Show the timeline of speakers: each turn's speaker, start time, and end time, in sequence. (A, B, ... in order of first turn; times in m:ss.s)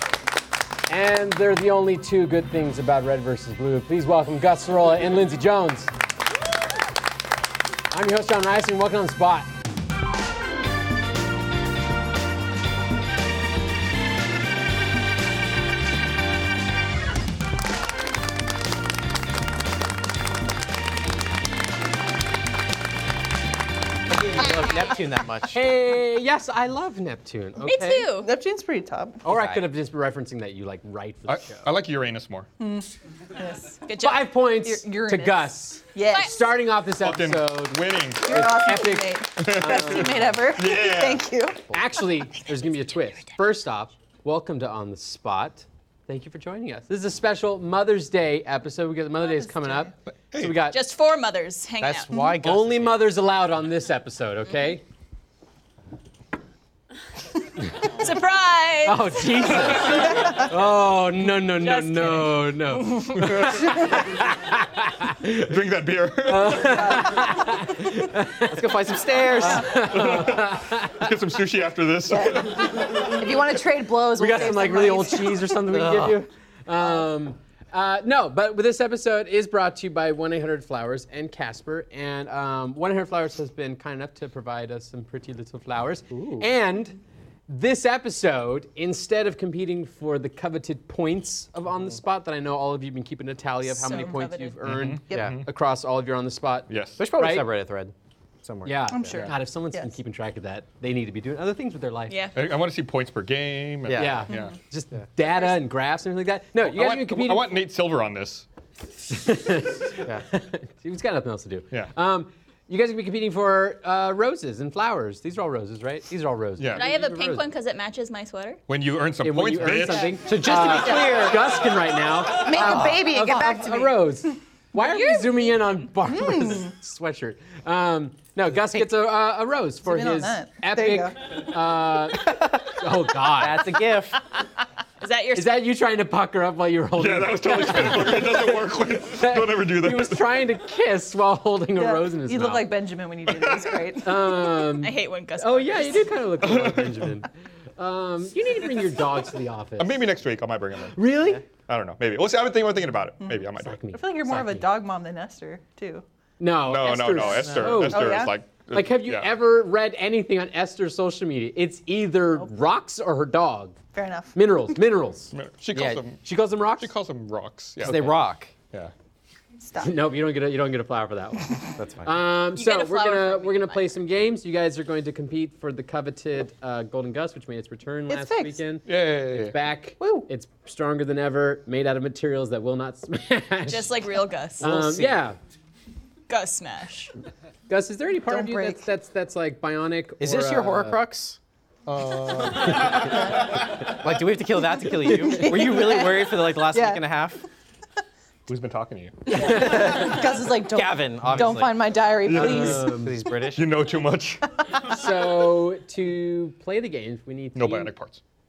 0:00.9-0:05.9 A
0:07.9-0:09.5 A
0:24.1-0:25.6 B
0:25.5-0:28.1 A
0:27.6-0:28.3 C
0:28.2-0:29.2 D
0:29.2-0:29.7 B
0:29.2-0:31.6 A
0:31.3-0:32.5 E
0:32.6-0:33.8 D
0:33.8-0:34.3 C
0:34.0-0:40.3 A
0:34.6-0:36.4 D
0:37.0-0:38.3 E
0:38.2-0:41.6 D
0:39.4-0:41.2 E
0:41.7-0:50.8 A
0:50.3-0:50.6 E
0:50.7-0:52.3 C
0:51.8-0:52.9 B
0:52.4-0:54.8 A
0:57.8-0:59.2 C
0:58.8-1:05.6 A
0:59.6-1:00.2 E
1:01.5-1:03.6 C
1:05.4-1:07.0 E
1:06.2-1:08.6 A
1:08.4-1:09.8 B
1:09.4-1:11.1 A
1:09.7-1:12.8 E
1:12.1-1:15.6 D
1:12.7-1:13.1 A
1:14.1-1:27.0 A
1:15.7-1:16.2 B
1:26.1-1:26.5 B
1:27.5-1:37.5 A
1:33.7-1:34.6 C
1:34.6-1:35.5 E
1:35.1-1:35.4 B
1:36.7-1:37.0 E
1:37.0-1:39.3 B
1:38.6-1:42.3 A
1:38.9-1:39.9 D
1:42.1-1:42.4 C
1:42.3-1:44.6 E
1:43.9-1:44.3 B
1:43.9-1:47.6 A
1:46.6-1:48.4 E
1:49.1-1:57.4 A
1:56.6-1:56.9 E
1:56.7-1:58.6 C
1:58.7-2:00.2 E
1:59.2-2:13.8 A
2:00.4-2:01.5 B
2:00.4-2:01.4 D
2:02.4-2:04.1 D
2:04.8-2:05.8 C
2:06.1-2:06.7 D
2:09.8-2:11.1 D
2:13.4-2:14.2 B
2:15.0-2:15.6 C
2:15.3-2:22.7 A
2:17.0-2:20.3 E
2:21.8-2:24.2 D
2:23.4-2:23.6 E
2:24.0-2:30.0 A
2:24.6-2:26.2 C
2:26.4-2:27.1 E
2:29.8-2:33.8 E
2:30.9-2:31.4 A
2:33.6-2:34.7 A
2:33.9-2:36.0 D
2:36.4-2:43.8 A
2:36.6-2:39.3 E
2:37.4-2:38.3 D
2:43.9-2:44.4 D
2:44.3-2:45.3 A
2:45.3-2:46.2 E
2:45.7-2:46.0 B
2:46.2-2:46.9 A
2:46.8-2:48.1 E
2:47.8-2:48.2 A
2:47.8-2:48.5 B
2:48.6-2:48.9 E
2:49.6-2:50.0 D
2:49.8-3:04.0 A
2:51.8-2:52.2 B
2:52.6-2:54.0 C
2:58.1-2:58.6 D
2:58.8-2:59.5 E
3:00.0-3:00.2 B
3:03.7-3:04.7 C
3:04.6-3:05.4 A
3:04.6-3:05.2 B
3:06.3-3:07.1 C
3:07.7-3:11.0 A
3:08.3-3:08.8 D
3:10.2-3:11.4 B
3:11.9-3:13.2 E
3:13.7-3:17.4 B
3:15.2-3:17.0 D
3:18.5-3:19.4 E
3:19.3-3:22.9 D
3:19.3-3:20.0 A
3:19.4-3:22.0 B
3:21.2-3:21.6 E
3:22.2-3:22.8 E
3:22.3-3:23.2 A
3:22.8-3:23.6 B
3:23.5-3:24.5 E
3:24.8-3:27.9 A
3:27.5-3:28.2 E